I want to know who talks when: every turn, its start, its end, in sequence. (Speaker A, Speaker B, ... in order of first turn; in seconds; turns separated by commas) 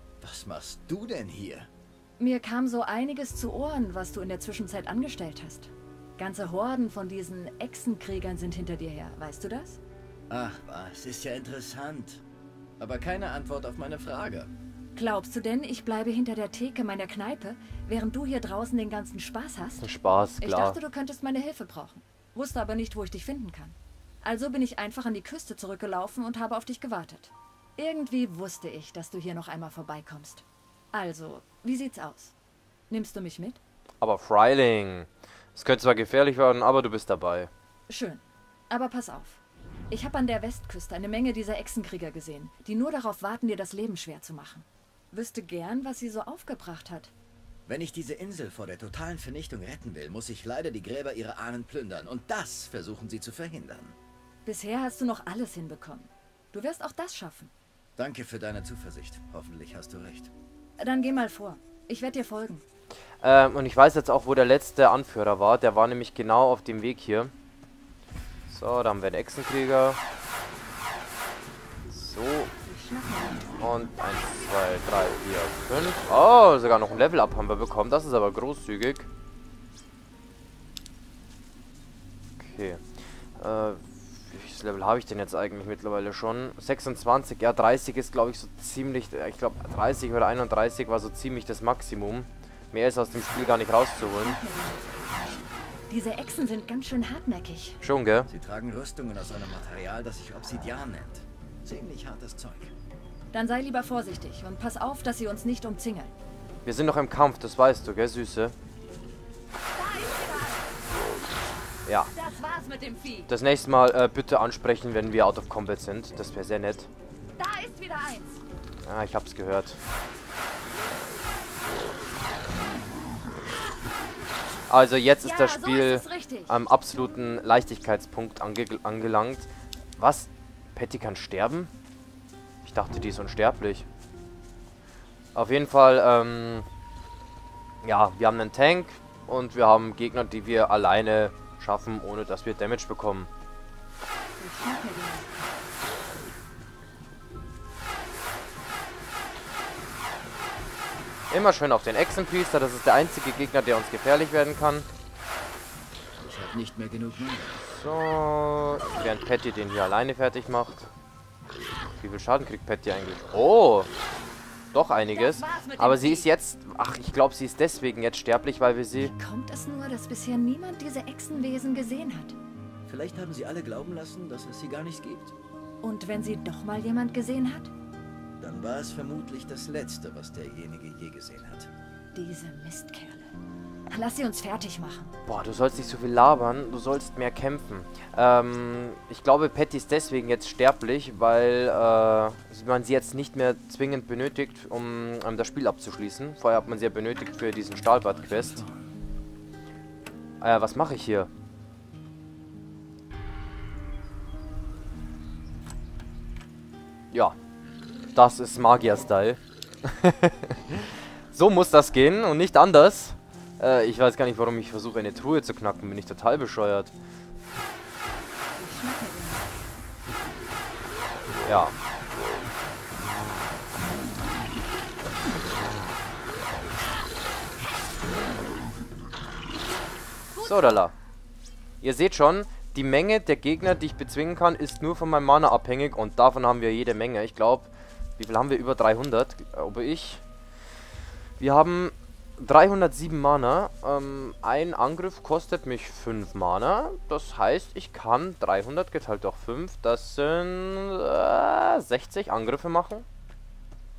Speaker A: 0.2-1.7, Speaker B: 2.2-9.8, Speaker A: 10.3-12.2, Speaker A: 12.8-14.5, Speaker B: 14.9-19.9, Speaker C: 19.8-20.8, Speaker B: 20.4-32.3, Speaker B: 32.9-33.6, Speaker C: 34.0-37.5, Speaker B: 37.9-39.4, Speaker B: 39.9-47.1, Speaker A: 47.7-54.0, Speaker B: 54.4-57.5, Speaker A: 58.0-60.3, Speaker B: 60.8-62.6, Speaker C: 63.2-67.3, Speaker C: 68.5-70.0, Speaker C: 71.9-72.5, Speaker B: 72.6-73.8, Speaker C: 73.6-79.1, Speaker C: 82.4-82.8, Speaker C: 83.4-94.4, Speaker B: 94.0-97.8, Speaker C: 97.8-98.3, Speaker A: 98.3-102.7, Speaker B: 103.3-106.1, Speaker C: 106.6-108.5, Speaker B: 109.7-110.7, Speaker C: 111.8-112.1, Speaker B: 112.1-113.3, Speaker C: 113.3-116.9, Speaker B: 117.4-118.4, Speaker C: 118.8-119.8, Speaker C: 124.7-131.7, Speaker B: 125.2-126.5, Speaker C: 132.6-133.8, Speaker C: 135.3-136.7, Speaker C: 137.8-143.3, Speaker B: 144.4-145.5, Speaker C: 151.3-154.8, Speaker A: 156.2-157.6, Speaker C: 157.6-160.9, Speaker C: 162.0-163.9, Speaker C: 164.7-169.1, Speaker B: 165.1-166.3, Speaker B: 169.0-172.3, Speaker A: 172.8-175.3, Speaker B: 175.8-177.7, Speaker A: 178.4-181.7, Speaker B: 182.1-183.3, Speaker B: 183.9-185.1, Speaker C: 185.2-198.6, Speaker A: 198.1-198.9, Speaker C: 200.4-201.3, Speaker C: 207.1-207.3, Speaker C: 208.1-216.9, Speaker B: 218.6-219.8, Speaker C: 221.4-221.8, Speaker C: 230.4-230.9, Speaker C: 231.8-240.2, Speaker C: 241.4-253.1